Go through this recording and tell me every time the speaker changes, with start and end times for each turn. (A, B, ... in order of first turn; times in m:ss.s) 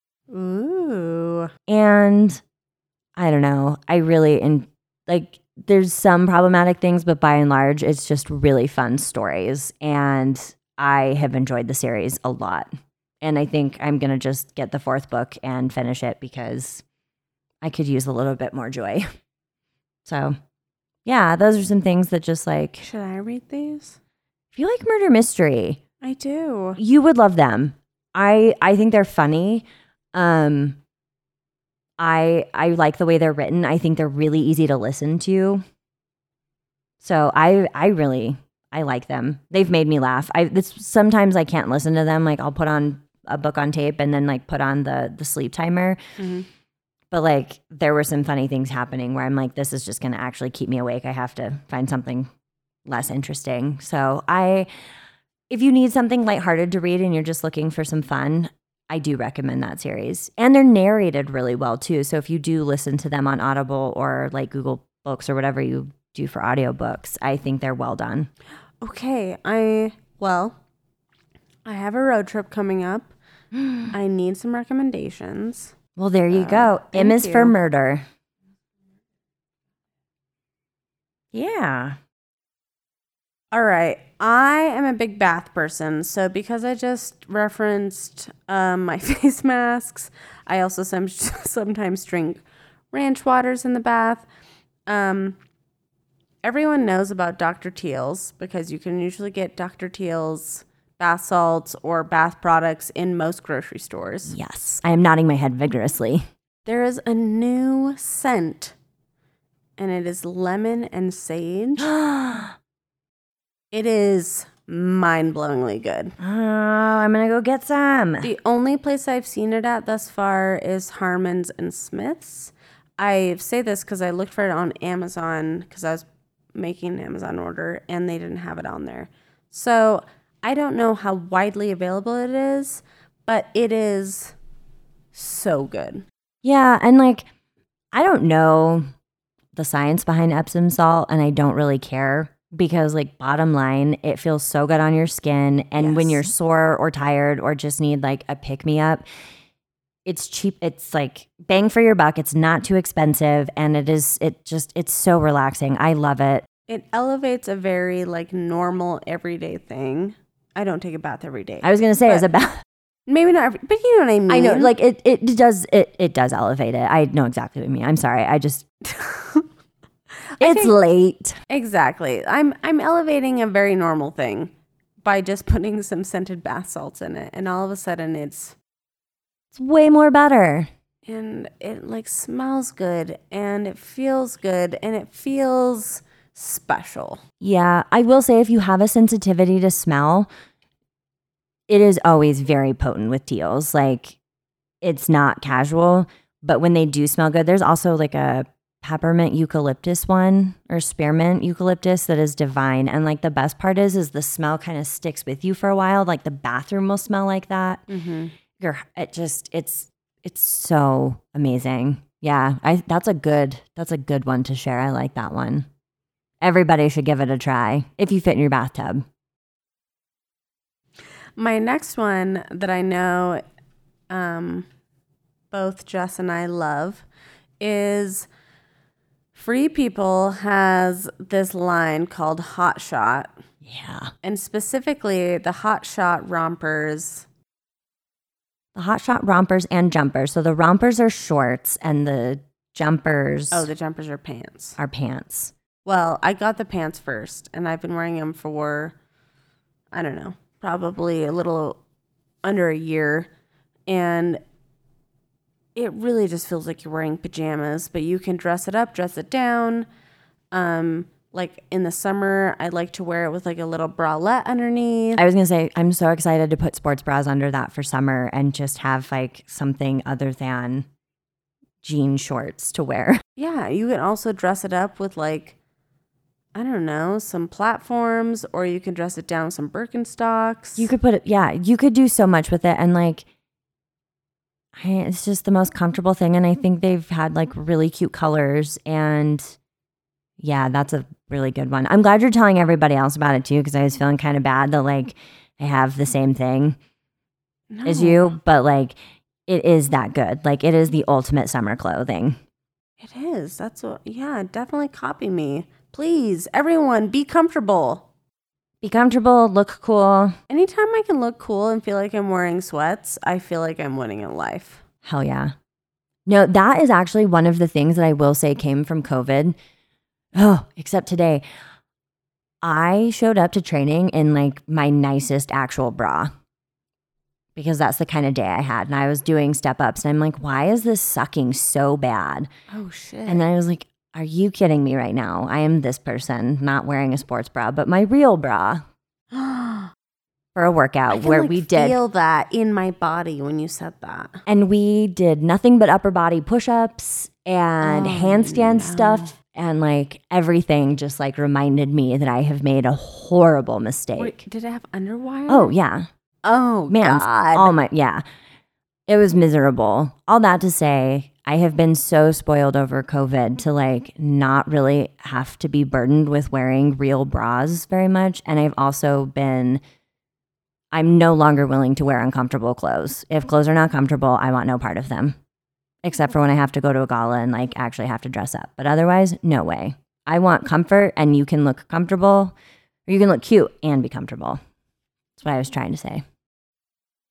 0:00.3-0:01.5 A
0:01.7-0:02.4 B
0:03.2-0:12.7 B
0:13.2-0:16.8 B
0:17.6-0:19.1 B
0:20.0-0:20.4 B
0:21.0-0:22.9 B
0:22.8-0:24.0 A
0:24.5-0:25.8 B
0:26.0-0:26.8 A
0:26.8-0:30.8 B
0:32.0-0:35.6 B
0:37.0-0:46.0 B
0:46.2-0:46.5 A
0:47.1-0:52.3 B
0:52.8-0:54.7 B
0:55.5-1:08.3 B
1:08.8-1:10.6 A
1:11.7-1:13.1 A
1:13.5-1:13.9 B
1:13.9-1:15.8 A
1:16.0-1:18.0 B
1:16.3-1:17.5 A
1:21.3-1:22.0 B
1:23.5-1:34.2 A
1:34.9-1:35.4 A
1:36.4-1:44.4 A
1:44.3-1:46.3 B
1:46.7-1:48.8 A
1:49.8-1:51.9 A
1:51.8-1:52.6 B
1:53.7-1:56.2 A
1:56.2-1:58.3 B
1:58.2-2:14.3 A
2:15.1-2:16.0 A
2:16.4-2:17.3 B
2:17.9-2:18.8 B
2:19.5-2:29.0 B
2:25.8-2:26.2 A
2:30.0-2:36.5 B
2:36.7-2:42.2 A
2:41.6-2:42.6 B
2:43.1-2:44.7 A
2:44.3-2:48.6 B
2:48.8-2:49.5 A
2:50.3-2:50.7 A
2:50.4-2:51.4 B
2:51.5-2:54.5 A
2:55.0-2:58.6 A
2:59.5-3:00.7 B
3:01.0-3:07.2 A
3:07.4-3:10.3 B
3:11.7-3:14.2 B
3:14.8-3:27.9 B
3:27.9-3:28.3 A
3:28.6-3:35.7 B
3:36.4-3:39.0 B
3:41.4-3:43.4 A
3:44.1-3:44.7 A
3:45.5-3:47.0 A
3:47.6-3:48.3 A
3:49.3-3:53.3 A
3:53.6-3:54.1 B
3:54.2-3:57.2 A
3:58.8-4:03.7 B
4:03.5-4:04.8 A
4:04.8-4:05.5 B
4:05.8-4:09.0 A
4:09.9-4:11.8 A
4:12.4-4:13.3 A
4:13.9-4:14.4 A
4:15.8-4:19.9 A
4:20.5-4:25.2 A
4:25.2-4:30.8 B
4:31.8-4:33.2 B
4:33.4-4:35.6 A
4:36.5-4:40.9 A
4:40.8-4:43.2 B
4:44.8-4:49.6 B
4:50.4-4:56.8 B
4:57.7-4:58.4 A
4:57.8-4:59.0 B
4:59.5-5:02.4 B
5:03.0-5:08.1 A
5:08.8-5:10.4 B
5:10.5-5:14.8 A
5:15.0-5:15.5 B
5:16.2-5:19.6 B
5:20.3-5:21.4 B
5:22.6-5:26.3 B
5:27.5-5:32.5 B
5:32.7-5:33.4 A
5:33.3-5:38.8 B
5:39.3-5:39.9 A
5:40.5-5:42.0 B
5:41.1-5:44.4 A
5:44.5-5:54.4 B
5:47.8-5:49.3 A
5:54.2-5:55.8 A
5:55.5-5:56.1 B
5:56.4-5:57.7 A
5:56.9-5:58.2 B
5:59.1-6:09.8 B
6:10.9-6:15.4 B
6:16.0-6:22.5 B
6:23.1-6:24.6 B
6:25.4-6:26.2 B